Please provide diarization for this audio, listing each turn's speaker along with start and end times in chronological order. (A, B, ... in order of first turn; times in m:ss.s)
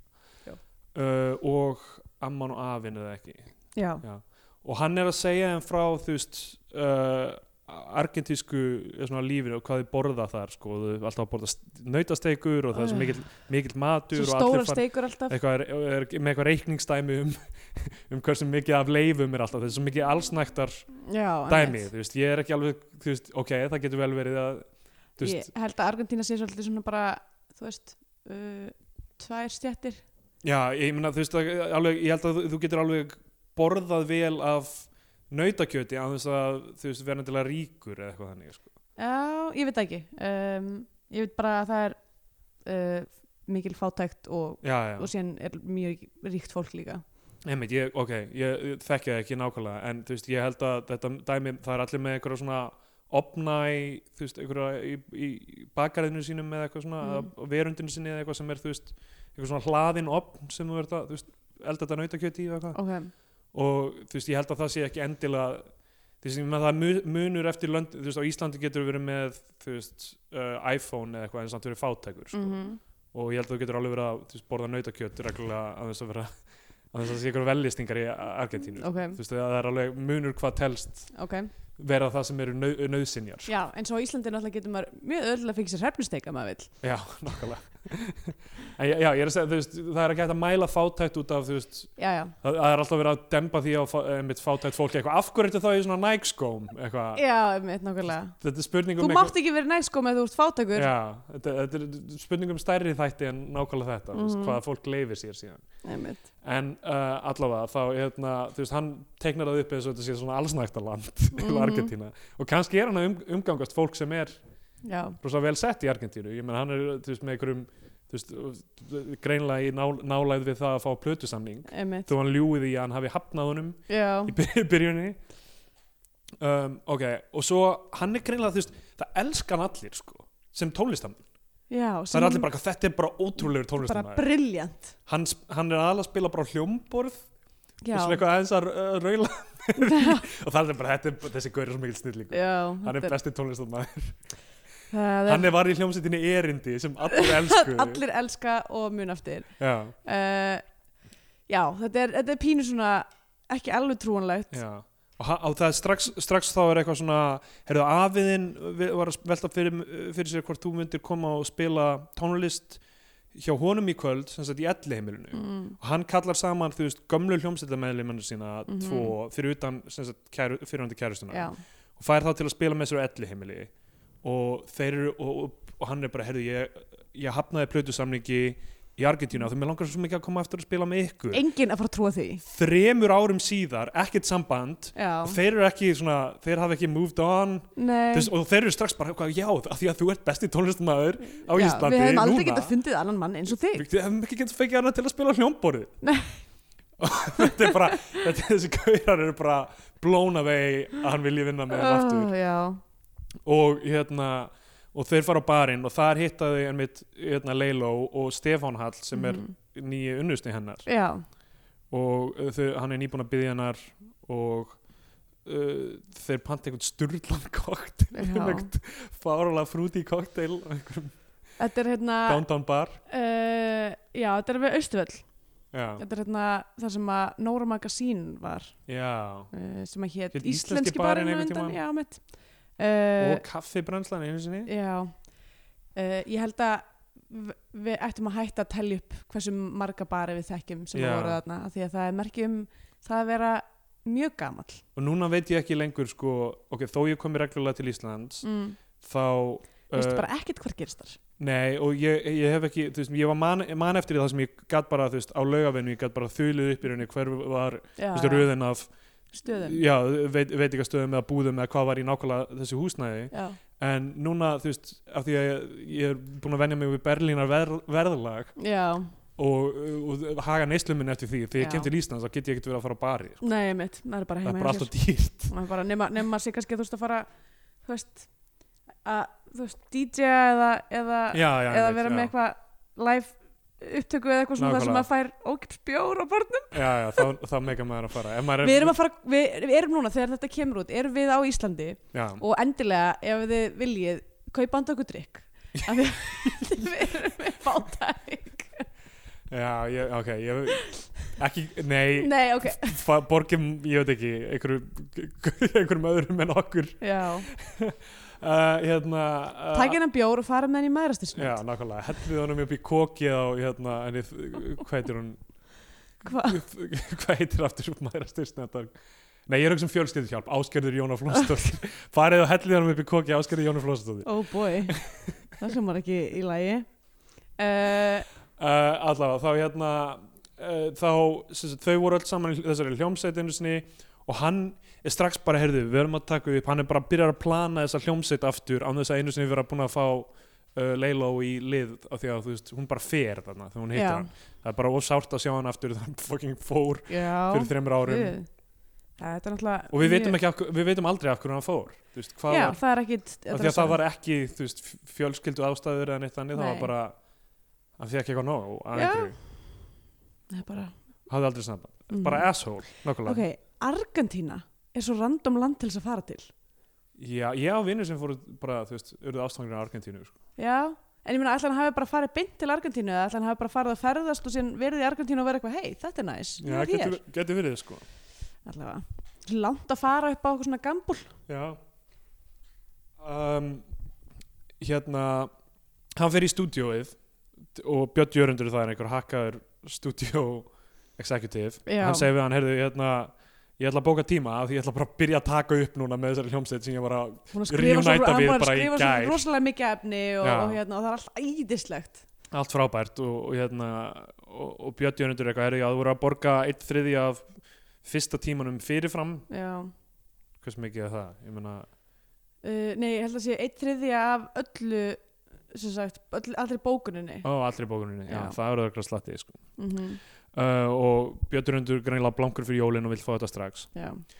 0:00.9-0:03.5 A
0:03.8-0:04.0 B
0:04.0-0:20.9 A
0:12.7-0:13.1 B
0:14.1-0:15.3 B
0:21.0-0:21.9 B
0:21.5-0:24.7 A
0:25.2-0:25.5 A
0:25.2-0:30.0 B
0:30.4-0:38.7 A
0:39.0-0:42.0 B
0:42.6-0:47.0 B
0:44.6-0:45.1 A
0:47.4-1:02.8 A
0:57.0-0:57.3 B
1:02.7-1:03.1 B
1:03.5-1:05.6 A
1:06.2-1:12.6 A
1:12.3-1:12.8 B
1:13.1-1:16.3 A
1:16.9-1:21.1 A
1:18.8-1:19.2 B
1:21.1-1:21.5 B
1:21.8-1:23.5 A
1:23.4-1:26.7 B
1:26.8-1:31.9 A
1:32.0-1:32.3 B
1:32.4-1:37.2 A
1:37.1-1:38.4 B
1:38.3-1:39.3 A
1:39.0-1:40.9 B
1:40.7-1:45.6 A
1:44.1-1:44.6 B
1:45.8-1:46.2 B
1:46.4-1:54.4 A
1:51.3-1:51.9 B
1:54.8-1:55.2 B
1:55.2-2:05.2 A
2:01.7-2:02.1 B
2:03.9-2:04.3 B
2:06.4-2:11.2 A
2:11.7-2:12.5 B
2:12.1-2:14.2 A
2:13.8-2:14.9 B
2:15.0-2:17.2 A
2:17.8-2:18.2 B
2:17.9-2:24.2 A
2:19.8-2:20.2 B
2:22.3-2:23.1 B
2:24.9-2:25.5 B
2:25.2-2:28.0 A
2:27.1-2:29.5 B
2:29.6-2:29.9 A
2:30.0-2:30.6 B
2:31.5-2:34.6 B
2:34.5-2:42.8 A
2:43.3-2:53.7 A
2:45.3-2:45.8 B
2:48.7-2:49.1 B
2:51.3-2:51.6 B
2:54.2-3:01.4 A
3:01.3-3:02.4 B
3:02.4-3:12.7 A
3:04.9-3:05.4 B
3:07.8-3:08.3 B
3:11.5-3:13.8 B
3:13.7-3:15.9 A
3:16.0-3:16.4 B
3:17.0-3:22.3 A
3:17.4-3:18.2 B
3:21.7-3:22.8 B
3:23.4-3:30.8 A
3:29.1-3:29.5 B
3:30.8-3:31.2 B
3:31.9-3:34.8 A
3:35.4-3:41.1 A
3:38.1-3:38.7 B
3:41.6-3:42.4 B
3:42.2-3:43.0 A
3:43.1-3:45.2 B
3:45.7-3:46.0 A
3:46.0-3:48.8 B
3:48.9-3:49.5 A
3:49.5-3:52.2 B
3:50.3-3:51.8 A
3:52.8-3:53.4 B
3:53.2-3:54.7 A
3:54.6-3:55.1 B
3:55.9-4:04.8 B
4:00.9-4:01.4 A
4:05.0-4:08.4 A
4:08.4-4:08.8 B
4:09.0-4:10.2 A
4:09.9-4:11.2 B
4:11.4-4:18.9 A
4:18.0-4:18.5 B
4:19.3-4:19.8 B
4:19.5-4:28.5 A
4:23.3-4:23.6 B
4:28.6-4:29.1 B
4:29.4-4:33.4 A
4:31.6-4:31.9 B
4:33.4-4:34.9 B
4:34.4-4:35.5 A
4:35.5-4:37.3 B
4:37.8-4:38.3 B
4:39.0-4:47.3 B
4:41.3-4:42.3 A
4:44.6-4:45.0 A
4:46.7-4:48.9 A
4:48.6-4:58.9 B
4:52.1-4:52.4 A
4:55.8-4:57.1 A
4:59.5-5:10.0 A
5:02.2-5:03.0 B
5:07.0-5:07.5 B
5:09.7-5:11.6 B
5:11.3-5:15.4 A
5:16.2-5:16.6 B
5:16.4-5:18.9 A
5:19.5-5:24.3 A
5:24.2-5:25.0 B
5:24.8-5:25.6 A
5:25.6-5:26.8 B
5:27.6-5:28.3 B
5:28.6-5:48.4 A
5:43.9-5:44.3 B
5:47.1-5:48.5 B
5:49.2-5:50.4 B
5:49.9-5:52.8 A
5:52.5-5:54.0 B
5:53.5-5:57.2 A
5:56.5-5:56.9 B
5:58.0-5:59.4 A
5:58.9-5:59.3 B
6:00.5-6:00.9 B
6:01.3-6:03.4 A
6:02.1-6:02.5 B
6:03.2-6:06.5 B
6:07.2-6:10.3 A
6:10.6-6:17.2 B
6:16.6-6:18.0 A
6:18.6-6:21.3 B
6:21.5-6:21.8 A
6:23.2-6:23.8 A
6:24.8-6:25.5 A
6:26.2-6:27.2 A
6:27.7-6:39.4 A
6:31.8-6:32.3 B
6:37.5-6:42.2 B
6:40.4-6:40.8 A
6:42.5-6:47.5 A
6:48.0-6:49.4 A
6:49.5-6:49.9 B
6:50.6-6:51.9 A
6:52.6-6:57.4 B
6:57.4-6:59.6 A
6:58.3-6:58.6 B
6:59.8-7:00.2 B
7:00.5-7:03.9 A
7:03.9-7:04.2 B